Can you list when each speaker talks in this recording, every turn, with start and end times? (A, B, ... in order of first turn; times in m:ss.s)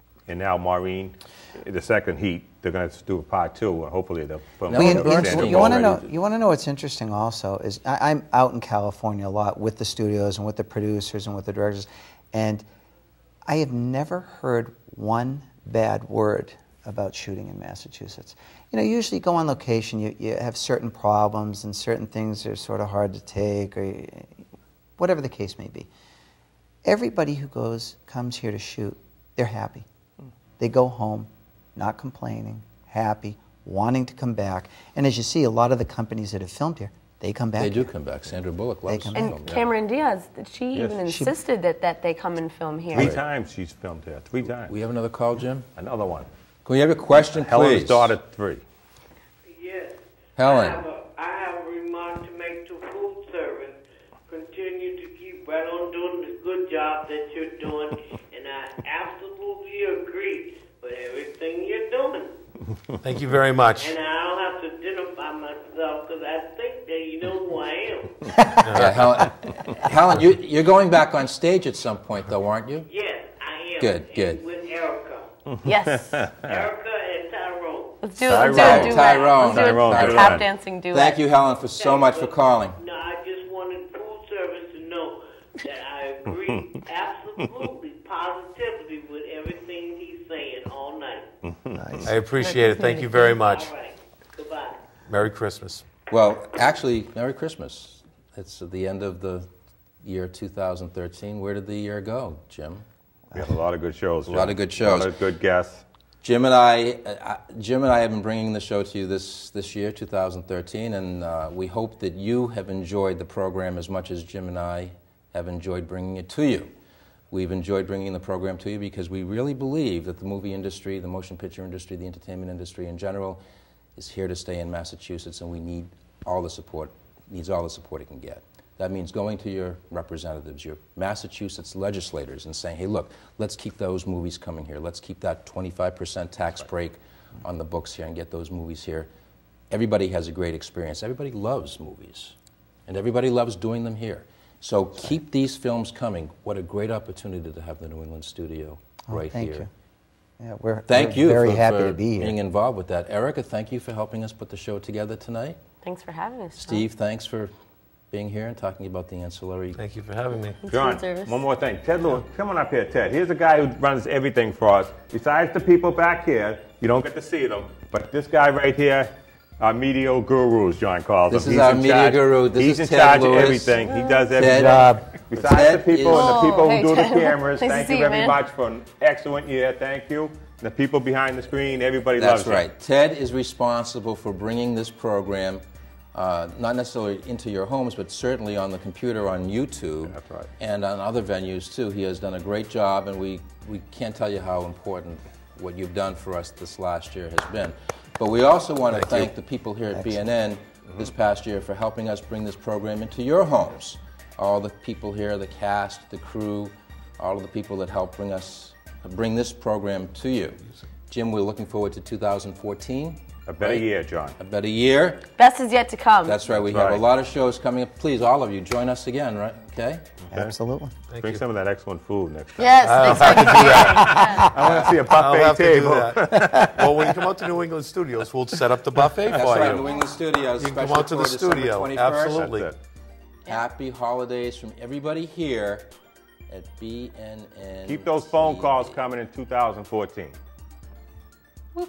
0:00.3-0:05.9 A
0:04.7-0:06.0 B
0:04.7-0:12.7 C
0:13.5-0:24.4 C
0:25.0-0:25.9 C
0:26.8-0:29.9 C
0:30.6-0:37.9 C
0:37.6-0:39.6 B
0:38.9-0:39.4 C
0:39.2-0:43.1 D
0:40.7-0:41.0 A
0:41.1-0:41.3 C
0:42.9-0:44.7 A
0:42.9-0:43.2 B
0:44.7-0:45.7 B
0:45.8-0:46.3 A
0:46.6-0:48.2 B
0:47.1-0:48.6 A
0:49.5-1:02.3 E
0:50.4-0:50.8 B
1:03.0-1:04.0 F
1:03.8-1:08.4 E
1:08.6-1:12.9 B
1:08.6-1:09.1 F
1:12.9-1:15.3 E
1:13.8-1:14.4 B
1:15.5-1:16.7 A
1:15.6-1:16.2 D
1:16.4-1:18.0 E
1:18.0-1:21.2 D
1:18.2-1:20.5 A
1:18.5-1:22.8 B
1:18.9-1:19.3 E
1:21.8-1:31.3 E
1:31.4-1:32.1 A
1:31.8-1:32.1 C
1:32.0-1:33.7 F
1:32.4-1:33.4 D
1:33.4-1:34.8 E
1:35.1-1:35.9 F
1:36.1-1:39.5 B
1:40.0-1:42.8 B
1:43.3-1:45.8 A
1:44.3-1:45.1 B
1:46.2-1:56.7 B
1:57.3-2:03.4 B
2:04.0-2:19.1 B
2:19.7-2:22.4 B
2:22.9-2:29.7 B
2:29.1-2:29.7 C
2:30.4-2:32.4 C
2:30.9-2:35.6 B
2:35.8-2:36.8 D
2:36.6-2:37.5 B
2:38.1-2:39.8 B
2:39.8-2:40.6 F
2:40.6-2:41.4 D
2:40.7-3:02.7 A
2:51.3-2:53.8 B
2:53.8-2:54.3 D
2:54.3-2:56.6 B
2:54.4-2:55.1 C
2:56.1-2:58.4 D
3:02.2-3:05.6 B
3:06.1-3:33.9 B
3:10.0-3:10.5 A
3:33.5-3:34.4 A
3:34.4-3:35.2 B
3:35.4-3:36.4 D
3:36.2-3:40.0 B
3:36.6-3:37.1 A
3:40.3-3:40.5 A
3:40.3-3:41.0 C
3:41.1-3:41.4 F
3:41.2-3:47.2 A
3:42.6-3:44.5 D
3:42.8-3:52.7 F
3:49.3-3:49.7 A
3:49.3-3:52.6 B
3:52.3-3:52.8 A
3:53.5-3:55.9 B
3:56.5-3:59.0 B
3:57.8-4:00.4 A